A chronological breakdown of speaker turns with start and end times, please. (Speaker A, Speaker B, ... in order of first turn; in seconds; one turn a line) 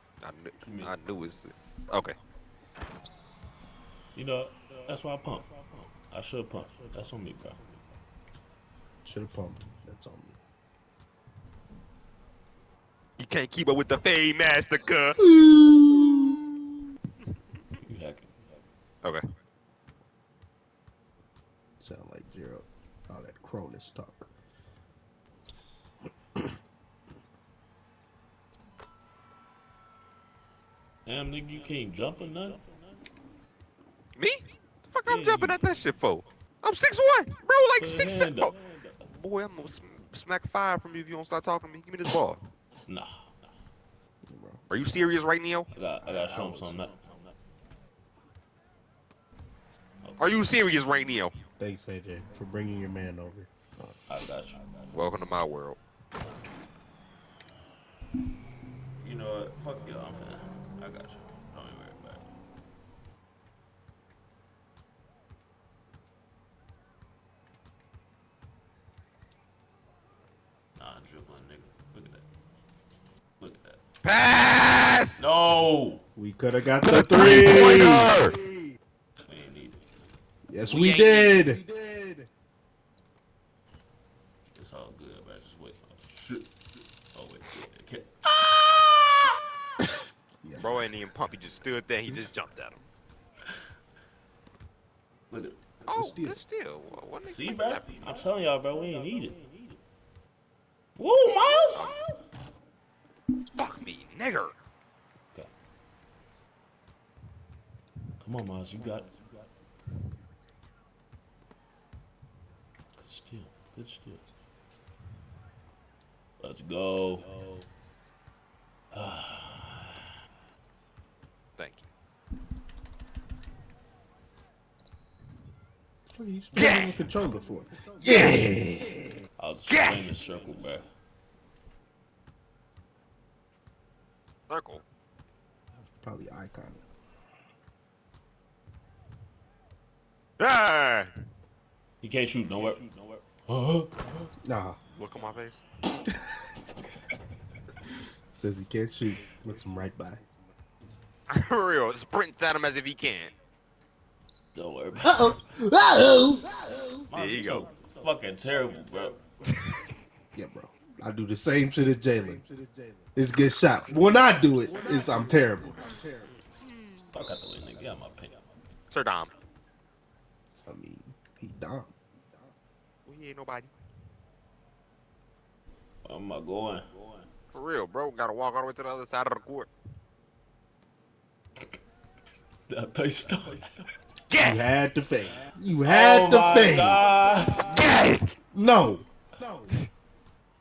Speaker A: 0.2-2.1
Speaker B: 0.6-0.9
Speaker B: 4.1-5.5
Speaker B: 6.1-7.6
Speaker C: 9.0-10.4
Speaker A: 13.2-15.2
Speaker C: 15.2-16.4
Speaker B: 17.8-18.3
Speaker C: 21.8-24.3
Speaker B: 31.1-32.6
Speaker A: 34.2-38.5
Speaker B: 35.1-35.6
Speaker B: 37.8-38.9
Speaker A: 39.0-42.4
Speaker B: 42.9-43.3
Speaker C: 44.3-44.6
Speaker A: 44.7-45.7
Speaker B: 45.7-47.1
Speaker C: 46.0-46.8
Speaker A: 50.2-51.4
Speaker C: 51.6-53.5
Speaker B: 54.1-54.7
Speaker A: 54.9-55.8
Speaker B: 59.0-62.2
Speaker B: 70.8-72.2
Speaker B: 73.4-73.8
Speaker A: 74.0-75.2
Speaker B: 75.2-76.0
Speaker C: 76.2-78.4
Speaker A: 76.8-78.4
Speaker B: 79.2-79.8
Speaker C: 80.5-81.6
Speaker A: 80.6-81.5
Speaker B: 84.5-86.5
Speaker B: 87.1-88.5
Speaker C: 90.4-90.7
Speaker A: 90.6-92.8
Speaker B: 95.3-95.6
Speaker C: 95.9-96.4
Speaker A: 95.9-98.0
Speaker B: 97.2-99.4
Speaker B: 101.0-102.2
Speaker A: 103.5-104.5
Speaker B: 108.2-109.1
Speaker B: 113.0-114.2
Speaker B: 116.4-117.3
Speaker B: 118.9-120.0
Speaker A: 121.6-121.9
Speaker C: 126.1-128.6
Speaker A: 126.5-127.0
Speaker A: 128.0-128.9
Speaker B: 129.4-130.9
Speaker A: 129.7-130.1
Speaker A: 134.5-134.8
Speaker C: 135.9-136.8
Speaker A: 140.4-141.1
Speaker B: 142.0-142.9
Speaker B: 143.4-144.0
Speaker C: 144.4-144.8
Speaker A: 144.9-145.6
Speaker C: 148.3-150.2
Speaker A: 151.3-153.3
Speaker B: 154.5-155.4
Speaker C: 155.0-156.8
Speaker B: 157.1-159.2
Speaker A: 157.1-157.7
Speaker C: 160.3-162.4
Speaker C: 163.1-166.3
Speaker A: 166.6-167.1
Speaker B: 167.1-168.4
Speaker A: 168.9-169.3
Speaker C: 170.7-171.9
Speaker A: 173.1-173.7
Speaker B: 176.0-176.8
Speaker A: 177.5-179.7
Speaker B: 182.7-183.9
Speaker A: 184.3-184.6
Speaker C: 184.4-187.0
Speaker B: 185.8-187.8
Speaker A: 187.7-188.3
Speaker C: 188.5-189.7